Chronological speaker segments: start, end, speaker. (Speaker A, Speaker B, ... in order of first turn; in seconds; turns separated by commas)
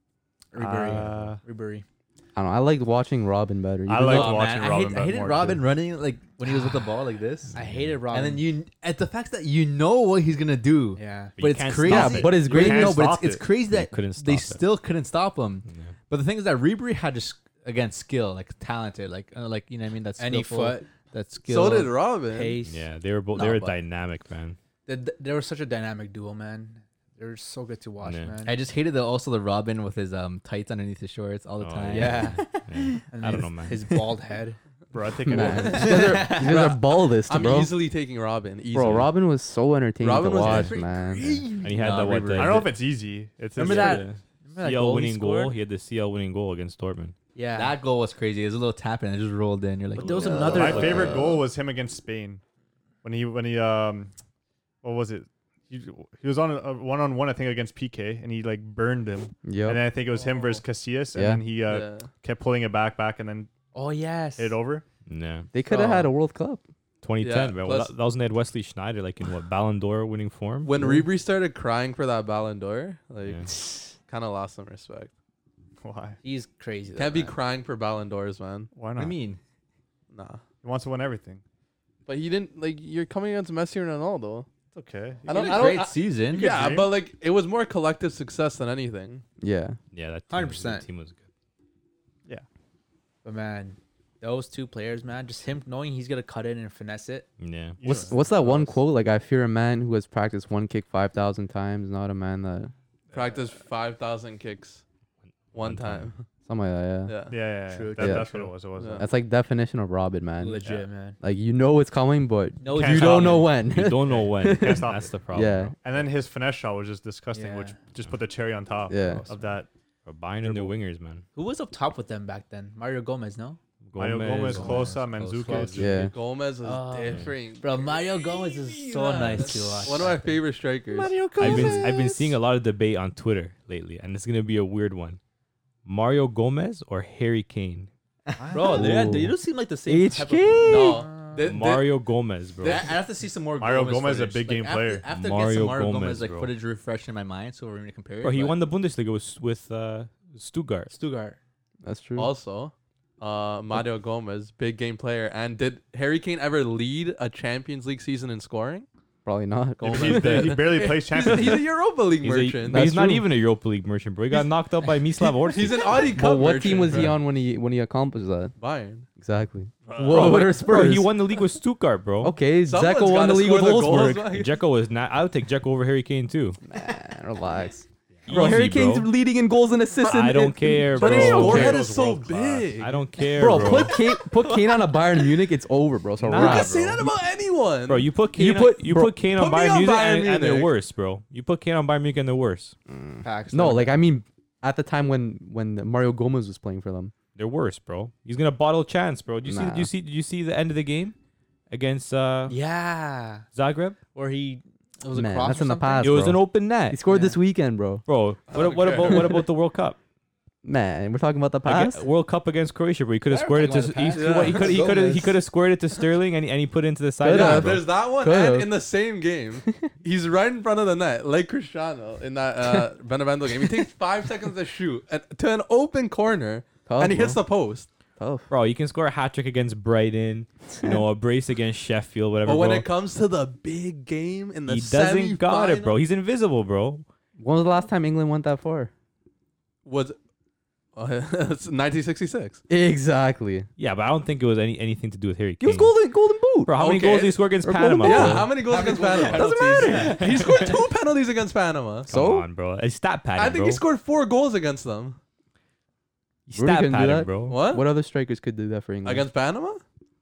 Speaker A: 0.5-1.9, Speaker B: 0.6-1.4, Speaker C: 2.4-4.3, Speaker B: 3.9-5.6, Speaker D: 4.1-7.5, Speaker A: 6.5-6.9, Speaker A: 7.5-8.5, Speaker E: 7.5-8.0, Speaker D: 8.1-21.9, Speaker A: 11.0-11.4, Speaker E: 11.4-12.5, Speaker C: 11.8-13.1, Speaker B: 12.4-13.4, Speaker E: 13.7-14.6, Speaker E: 15.7-15.9, Speaker A: 20.2-20.9, Speaker F: 21.5-22.6, Speaker A: 22.2-23.7, Speaker E: 22.6-24.6, Speaker D: 23.4-23.7, Speaker A: 24.9-28.6, Speaker E: 28.0-28.4, Speaker D: 28.4-32.9, Speaker E: 31.6-33.9, Speaker A: 31.9-34.6, Speaker B: 34.9-36.1, Speaker C: 35.3-37.8, Speaker F: 35.4-39.1, Speaker A: 35.5-36.6, Speaker C: 38.7-41.4, Speaker F: 40.0-41.3, Speaker A: 40.5-42.3, Speaker E: 41.6-42.7, Speaker D: 41.8-42.7, Speaker B: 42.3-44.1, Speaker A: 43.6-45.6, Speaker E: 43.6-47.1, Speaker A: 47.4-47.8, Speaker D: 47.5-51.2, Speaker A: 50.0-51.3, Speaker B: 50.5-52.4, Speaker B: 53.0-54.1, Speaker B: 54.8-63.5, Speaker C: 59.5-59.9, Speaker A: 60.1-60.6, Speaker C: 61.1-61.4, Speaker F: 61.7-62.1, Speaker A: 63.7-64.6, Speaker B: 64.4-64.8, Speaker E: 65.1-65.5, Speaker C: 65.5-66.6, Speaker F: 65.7-66.1, Speaker E: 67.0-70.7, Speaker F: 67.2-67.9, Speaker F: 70.6-75.1, Speaker C: 70.8-71.1, Speaker E: 73.2-73.5, Speaker B: 75.8-76.2, Speaker A: 76.2-77.3, Speaker F: 77.0-78.7, Speaker B: 78.7-79.2, Speaker D: 79.0-79.4, Speaker F: 80.1-80.4, Speaker B: 80.6-81.4, Speaker F: 82.1-84.5, Speaker B: 84.7-86.9, Speaker F: 85.2-89.2, Speaker D: 85.3-86.7, Speaker C: 89.4-89.8, Speaker E: 89.9-91.2, Speaker A: 90.3-90.8, Speaker A: 93.2-97.3, Speaker E: 97.4-97.8, Speaker B: 97.8-98.7, Speaker C: 97.9-102.7, Speaker F: 103.1-104.8, Speaker E: 105.5-106.1, Speaker F: 105.5-106.3, Speaker C: 106.5-107.2, Speaker F: 107.1-107.4, Speaker B: 107.3-109.1, Speaker A: 107.7-108.5, Speaker C: 108.0-108.3, Speaker F: 108.8-109.1, Speaker C: 109.0-110.7, Speaker A: 110.4-111.2, Speaker C: 111.2-115.7, Speaker A: 112.6-113.5, Speaker B: 112.7-113.5, Speaker E: 113.5-115.8, Speaker B: 114.1-115.2, Speaker B: 115.8-119.7, Speaker A: 117.3-117.8, Speaker C: 118.9-119.3, Speaker E: 120.0-121.3, Speaker A: 121.3-123.6, Speaker E: 123.9-124.9, Speaker B: 124.0-125.9, Speaker D: 124.4-125.9, Speaker A: 124.5-125.8, Speaker C: 125.7-126.1, Speaker F: 125.9-131.9, Speaker A: 126.6-130.4, Speaker B: 131.3-131.8, Speaker E: 131.4-135.2, Speaker A: 131.4-131.8, Speaker E: 135.8-137.9, Speaker B: 138.4-139.0, Speaker A: 138.5-141.6, Speaker C: 138.7-139.3, Speaker C: 139.9-141.1, Speaker F: 140.7-141.7, Speaker D: 141.4-141.8, Speaker E: 141.4-142.9, Speaker D: 142.6-148.6, Speaker B: 143.6-145.1, Speaker E: 145.1-146.5, Speaker E: 148.2-150.9, Speaker A: 150.9-151.4, Speaker C: 151.8-152.3, Speaker F: 152.2-158.9, Speaker C: 159.2-160.6, Speaker B: 159.8-161.7, Speaker F: 159.8-162.9, Speaker E: 162.2-165.9, Speaker C: 162.7-163.3, Speaker F: 165.2-167.2, Speaker C: 165.9-168.5, Speaker F: 168.6-169.1, Speaker C: 169.2-171.2, Speaker F: 169.9-170.5, Speaker E: 170.0-172.3, Speaker C: 172.2-174.3, Speaker F: 172.7-174.6, Speaker E: 174.2-176.6, Speaker C: 176.7-181.8, Speaker E: 178.3-179.1, Speaker E: 180.0-181.8, Speaker F: 180.9-183.0, Speaker B: 181.0-182.8, Speaker E: 182.8-184.0, Speaker C: 183.3-186.8, Speaker E: 186.2-187.1, Speaker F: 186.3-188.1, Speaker E: 187.9-192.8, Speaker C: 188.4-189.1, Speaker F: 189.3-190.7, Speaker C: 192.9-197.1, Speaker A: 193.2-194.0, Speaker E: 197.3-201.2, Speaker C: 199.4-199.9, Speaker E: 201.7-202.6, Speaker A: 202.5-203.4, Speaker E: 203.5-204.0, Speaker A: 204.1-206.3, Speaker C: 205.1-208.0, Speaker E: 206.0-207.0, Speaker A: 207.1-207.4, Speaker E: 208.1-210.0, Speaker F: 208.5-209.3, Speaker C: 210.6-212.1, Speaker E: 211.7-217.9, Speaker D: 213.3-215.3, Speaker F: 214.1-214.8, Speaker C: 217.2-218.7, Speaker F: 217.3-227.9, Speaker C: 226.9-227.4, Speaker C: 228.2-228.5, Speaker E: 228.5-232.9, Speaker F: 232.4-235.6, Speaker E: 234.7-237.1, Speaker D: 235.5-235.9, Speaker C: 237.4-238.9, Speaker F: 239.8-240.2, Speaker F: 240.9-242.6, Speaker C: 242.7-243.7, Speaker E: 243.8-246.0, Speaker C: 245.6-246.8, Speaker E: 246.7-248.5, Speaker F: 246.8-247.4, Speaker C: 247.6-248.6, Speaker F: 248.0-252.1, Speaker A: 248.7-250.2, Speaker D: 248.7-250.0, Speaker C: 249.3-250.2, Speaker C: 252.1-252.5, Speaker E: 252.1-253.8, Speaker F: 253.4-255.2, Speaker E: 256.5-257.6, Speaker C: 256.5-259.3, Speaker F: 257.5-257.9, Speaker F: 259.0-259.8